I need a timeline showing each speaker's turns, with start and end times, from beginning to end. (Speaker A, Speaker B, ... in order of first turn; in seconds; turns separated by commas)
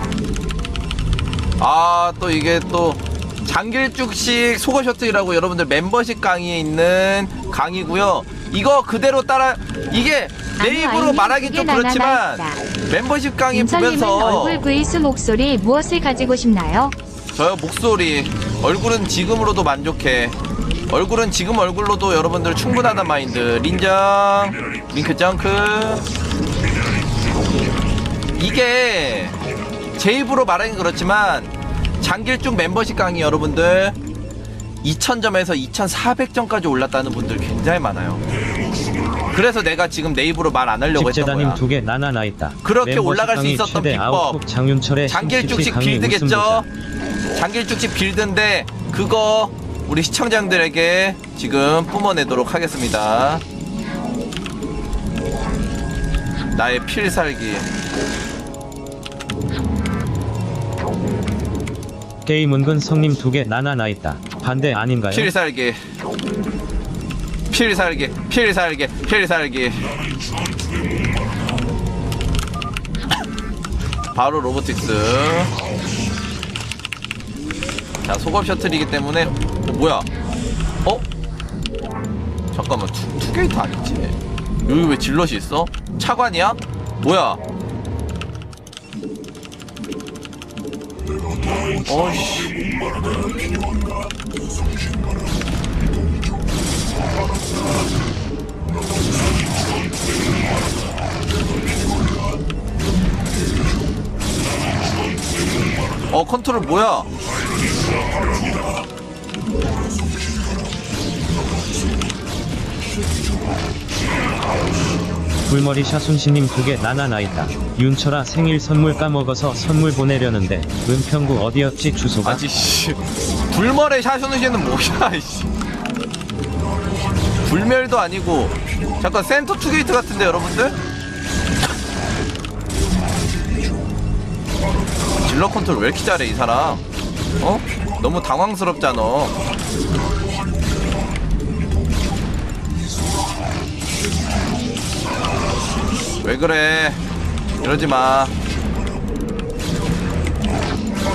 Speaker A: 1.6-14.6, Speaker B: 10.6-12.6, Speaker B: 13.5-16.9, Speaker A: 17.4-20.4, Speaker A: 20.9-26.0, Speaker A: 28.4-29.4, Speaker A: 30.0-34.0, Speaker A: 34.8-38.2, Speaker A: 39.3-41.6, Speaker C: 40.9-46.6, Speaker A: 42.6-44.4, Speaker A: 45.1-46.7, Speaker A: 47.4-53.4, Speaker A: 56.5-57.7, Speaker C: 62.3-65.3, Speaker A: 65.1-65.8, Speaker A: 67.5-69.8, Speaker A: 74.2-75.5, Speaker A: 78.0-80.1, Speaker A: 82.5-87.4, Speaker A: 91.8-92.7, Speaker A: 106.1-107.1, Speaker C: 115.5-122.4, Speaker A: 122.2-123.0, Speaker A: 123.5-125.5, Speaker A: 127.4-130.8, Speaker A: 135.2-136.8, Speaker A: 137.4-139.3, Speaker A: 146.2-147.0, Speaker A: 147.6-148.3